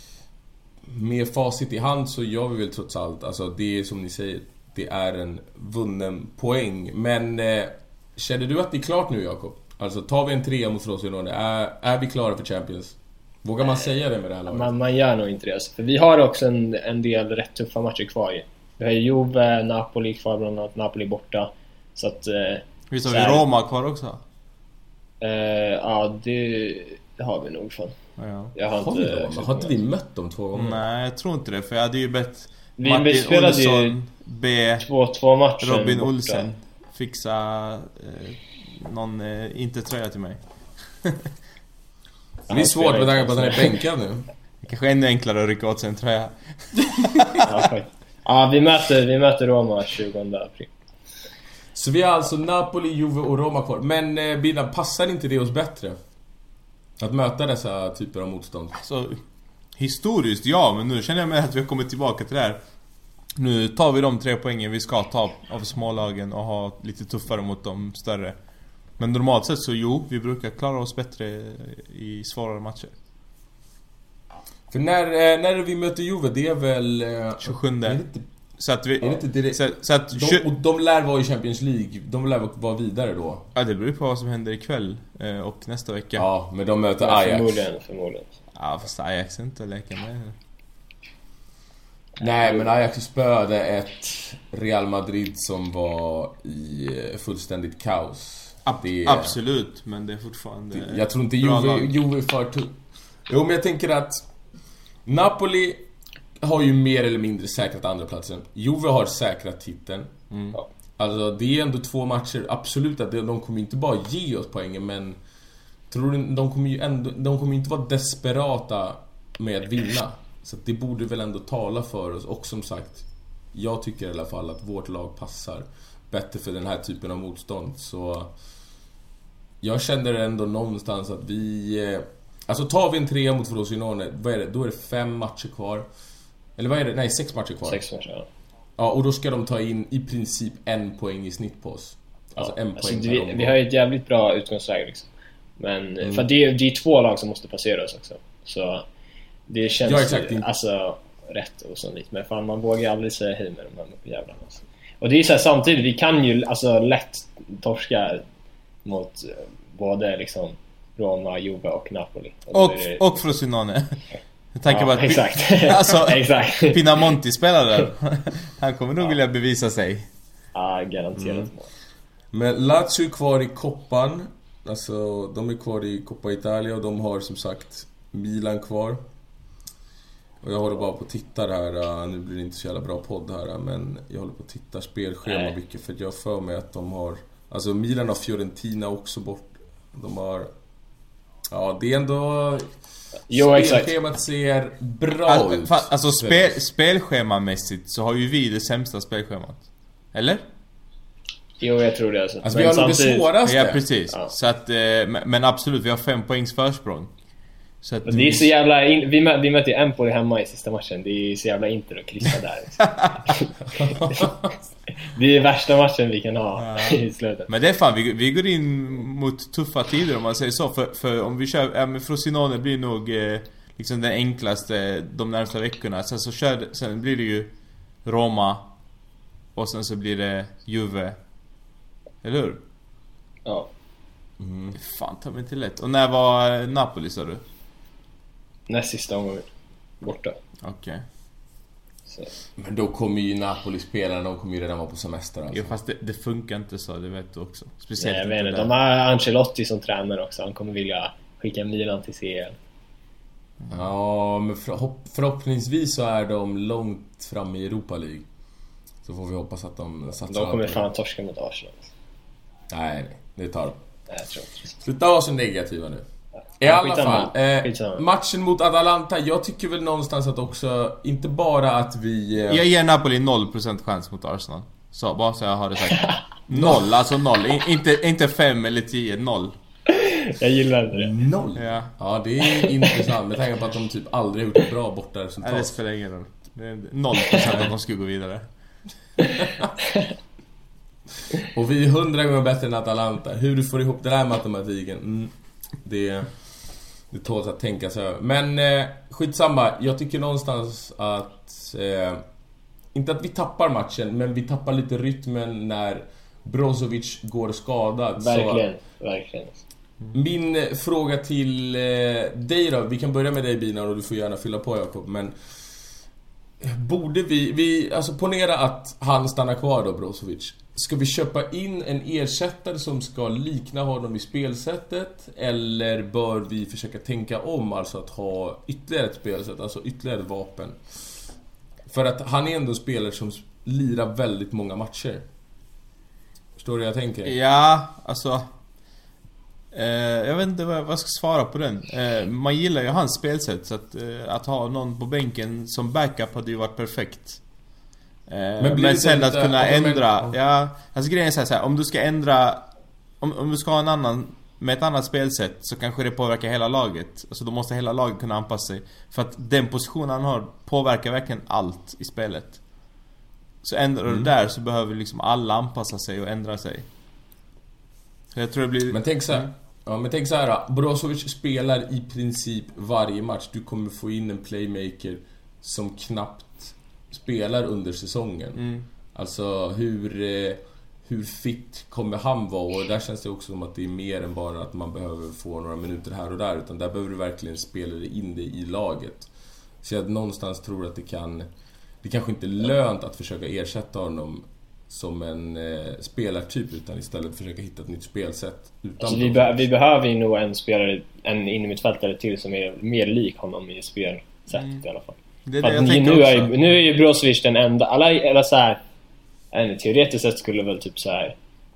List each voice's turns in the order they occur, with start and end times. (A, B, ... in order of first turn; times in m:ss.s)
0:00.8-0:14.7 A
0:14.5-0:23.4 B
0:22.9-0:24.2 C
0:25.2-0:27.9 B
0:28.2-0:28.5 C
0:28.5-0:29.7 B
0:28.7-0:30.8 A
0:30.5-0:34.8 C
0:32.8-0:34.0 B
0:34.8-0:36.4 B
0:35.6-0:40.4 C
0:41.0-0:41.3 C
0:42.5-0:43.7 B
0:42.5-0:44.3 A
0:44.6-0:47.6 C
0:47.4-0:50.7 B
0:51.7-0:56.0 A
0:57.0-0:58.8 A
0:58.8-0:59.2 C
0:59.8-1:02.6 C
1:03.4-1:08.4 C
1:09.0-1:12.9 C
1:14.7-1:18.2 A
1:17.4-1:18.0 C
1:18.6-1:20.4 C
1:19.0-1:23.5 A
1:23.5-1:26.2 C
1:26.2-1:27.6 A
1:27.0-1:28.3 B
1:28.5-1:30.4 C
1:32.2-1:39.4 A
1:38.6-1:41.9 C
1:40.7-1:42.8 A
1:43.3-1:44.3 A
1:45.0-1:45.8 A
1:46.4-1:50.1 A
1:50.3-1:50.6 C
1:51.0-1:55.2 A
1:55.9-2:08.3 A
2:09.6-2:15.8 A
2:16.6-2:17.8 A
2:17.7-2:18.3 B
2:18.8-2:23.6 A
2:22.4-2:28.8 B
2:26.0-2:26.2 A
2:29.5-2:38.2 B
2:29.8-2:30.4 A
2:38.8-2:43.0 B
2:42.5-2:44.0 C
2:44.5-2:50.1 C
2:44.7-2:47.1 B
2:50.5-2:51.7 B
2:52.3-2:59.0 A
3:00.4-3:10.5 A
3:11.5-3:12.7 A
3:13.3-3:13.9 B
3:13.3-3:16.6 A
3:15.3-3:19.6 C
3:20.1-3:20.4 C
3:21.6-3:23.3 B
3:22.4-3:23.8 A
3:23.4-3:27.1 C
3:27.8-3:28.4 C
3:28.0-3:33.5 B
3:32.9-3:33.1 C
3:33.7-3:34.5 A
3:35.1-3:37.5 B
3:36.6-3:47.5 C
3:48.0-3:48.7 C
3:49.6-3:51.2 C
3:52.2-3:52.6 C
3:54.4-3:54.8 A
3:54.8-3:57.4 C
3:58.7-3:59.5 B
4:00.0-4:00.4 B
4:00.6-4:01.0 C
4:02.6-4:05.7 A
4:05.5-4:08.7 C
4:08.0-4:12.6 B
4:13.7-4:18.2 A
4:19.0-4:20.8 A
4:20.3-4:21.9 B
4:22.7-4:23.8 A
4:24.1-4:24.8 B
4:24.8-4:26.0 A
4:26.6-4:32.6 A
4:26.6-4:28.0 B
4:32.5-4:39.5 C
4:36.5-4:36.8 A
4:39.9-4:41.1 B
4:40.9-4:45.7 A
4:41.6-4:41.9 C
4:42.6-4:43.0 B
4:45.4-4:48.4 C
4:47.4-4:47.7 A
4:49.4-4:49.7 A
4:51.4-4:56.4 A
4:57.1-5:02.2 A
5:02.9-5:08.6 A
5:08.2-5:09.6 B
5:10.1-5:15.4 A
5:16.6-5:30.8 A
5:31.9-5:35.2 A
5:36.6-5:37.3 A
5:37.2-5:38.4 C
5:39.7-5:47.4 C
5:48.3-5:52.6 C
5:48.6-5:50.3 A
5:53.2-6:02.6 C
6:03.6-6:06.9 C
6:04.1-6:04.3 A
6:08.3-6:09.5 C
6:08.9-6:18.6 A
6:18.6-6:18.8 C
6:19.1-6:29.3 A
6:29.8-6:31.5 A
6:32.0-6:39.7 A
6:39.0-6:48.8 B
6:44.5-6:44.8 C
6:45.4-6:46.6 C
6:49.5-6:51.4 B